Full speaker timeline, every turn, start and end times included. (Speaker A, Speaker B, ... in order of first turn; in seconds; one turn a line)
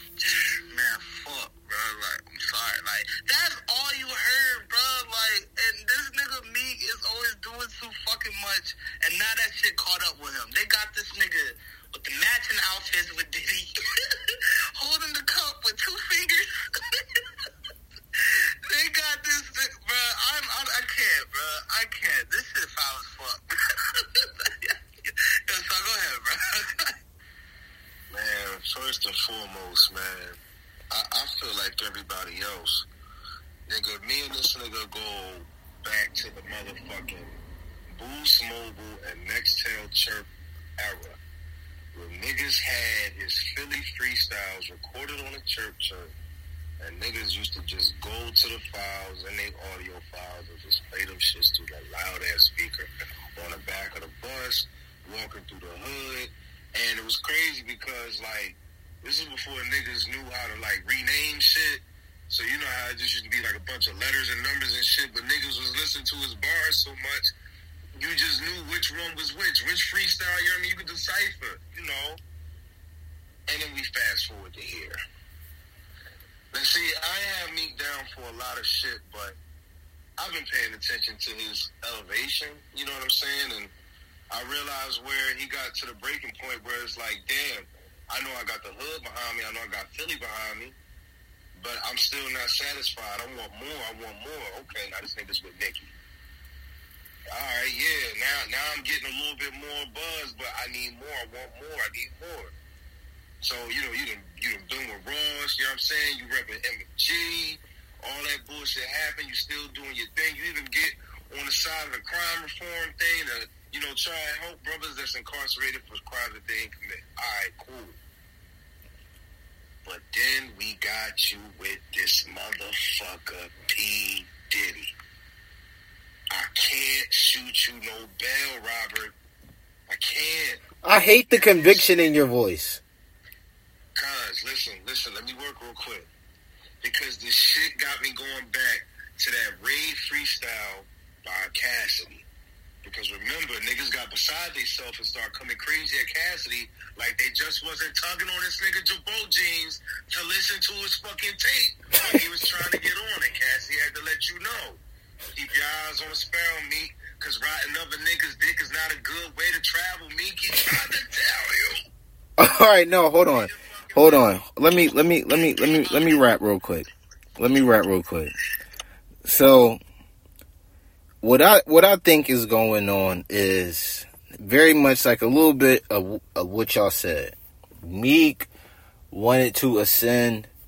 Speaker A: 0.7-17.2
Speaker A: 18.2-26.9
Speaker B: 28.1-30.4
Speaker B: 30.9-32.9
Speaker B: 33.6-37.4
Speaker B: 37.9-41.2
Speaker B: 41.9-46.1
Speaker B: 46.8-67.3
Speaker B: 68.0-72.2
Speaker B: 73.5-75.0
Speaker B: 76.5-79.4
Speaker B: 80.2-83.7
Speaker B: 84.3-90.8
Speaker B: 91.5-95.9
Speaker B: 97.3-102.5
Speaker B: 103.4-118.0
Speaker B: 119.8-124.9
Speaker B: 126.3-129.1
Speaker B: 129.9-130.6
Speaker C: 130.8-132.8
Speaker B: 133.9-136.1
Speaker B: 136.8-142.2
Speaker B: 142.8-161.8
Speaker C: 162.4-168.3
Speaker B: 163.2-164.2
Speaker A: 165.6-166.0
Speaker C: 169.2-169.8
Speaker C: 171.2-178.5
Speaker C: 179.1-180.5